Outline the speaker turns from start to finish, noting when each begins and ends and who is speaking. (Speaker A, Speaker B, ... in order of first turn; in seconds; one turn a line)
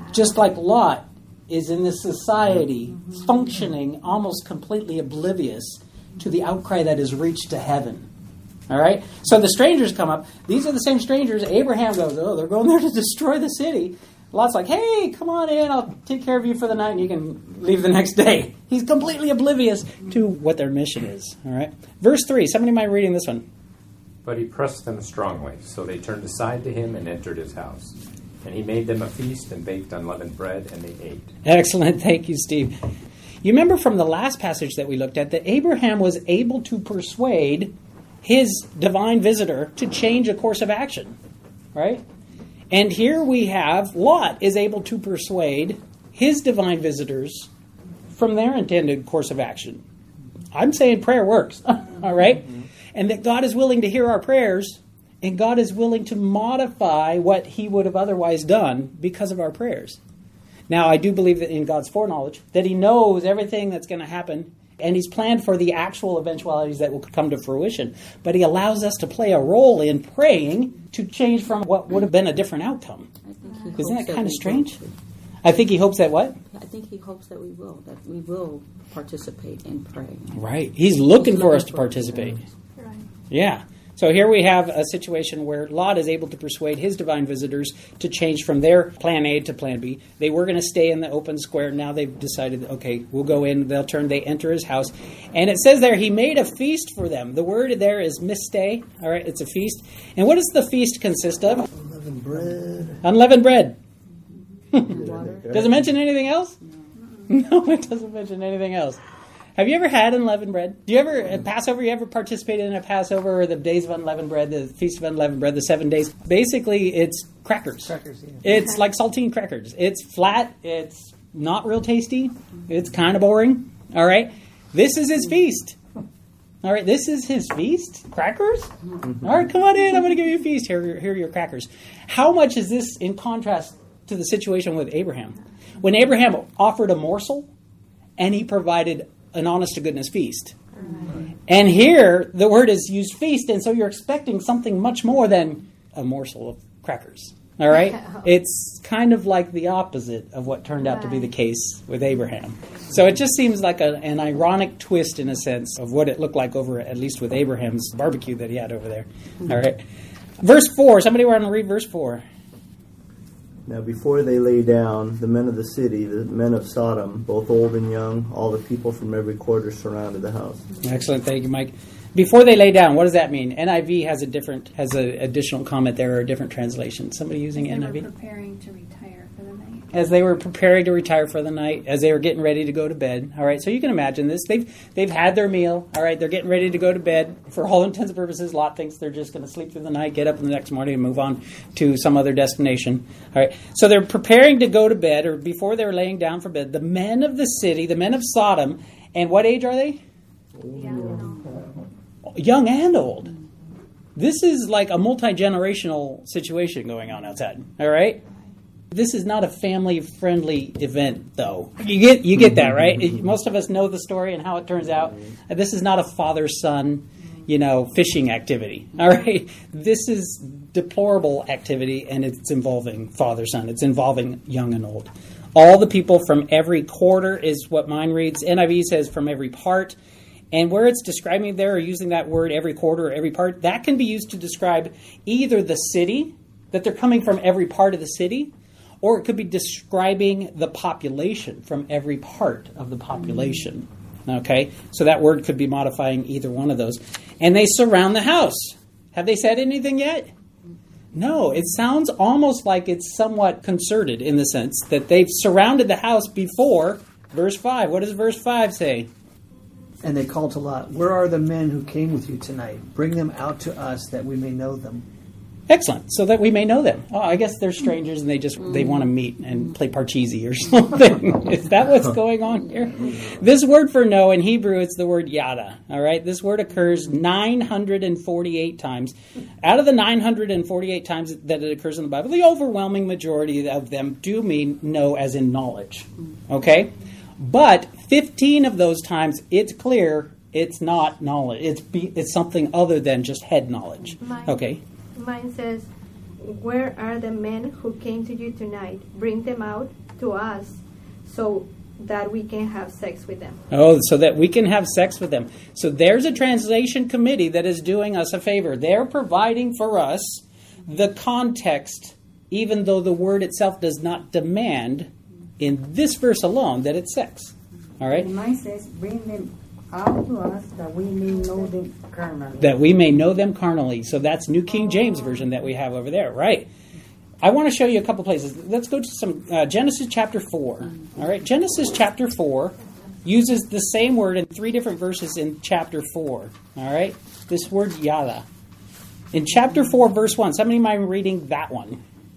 Speaker A: 0.1-8.1
Speaker A: 8.7-23.4
Speaker B: 24.2-31.3
Speaker A: 31.4-32.7
Speaker A: 33.4-41.2
Speaker A: 41.7-42.0
Speaker A: 42.7-47.5
Speaker A: 48.1-49.8
Speaker A: 50.5-60.0
Speaker A: 60.7-73.1
Speaker C: 73.2-74.9
Speaker D: 73.5-73.8
Speaker A: 73.8-74.8
Speaker A: 75.4-76.4
Speaker C: 76.5-80.4
Speaker A: 80.3-82.4
Speaker C: 81.2-82.4
Speaker D: 82.8-83.0
Speaker A: 83.3-101.6
Speaker E: 101.7-103.0
Speaker A: 103.0-103.8
Speaker A: 104.7-105.0
Speaker C: 104.8-105.7
Speaker E: 104.9-105.8
Speaker A: 105.5-106.5
Speaker A: 107.3-109.0
Speaker A: 109.5-125.8
Speaker F: 117.9-118.3
Speaker A: 126.6-137.5
Speaker A: 138.2-140.6
Speaker D: 140.8-141.2
Speaker A: 141.5-159.8
Speaker D: 150.9-151.3
Speaker A: 160.4-162.2
Speaker E: 163.7-170.7
Speaker A: 170.8-178.1
Speaker G: 177.5-179.8
Speaker A: 179.9-200.0
Speaker D: 200.7-201.5
Speaker A: 202.3-203.3
Speaker A: 204.2-208.2
Speaker A: 208.9-230.0
Speaker A: 230.5-238.5
Speaker A: 239.0-250.3
Speaker A: 251.1-259.1
Speaker F: 260.0-265.1
Speaker A: 265.7-294.8
Speaker D: 294.2-295.9
Speaker D: 296.4-303.6
Speaker A: 303.7-318.3
Speaker H: 318.1-322.8
Speaker A: 322.6-326.7
Speaker A: 327.4-338.4
Speaker A: 339.3-342.0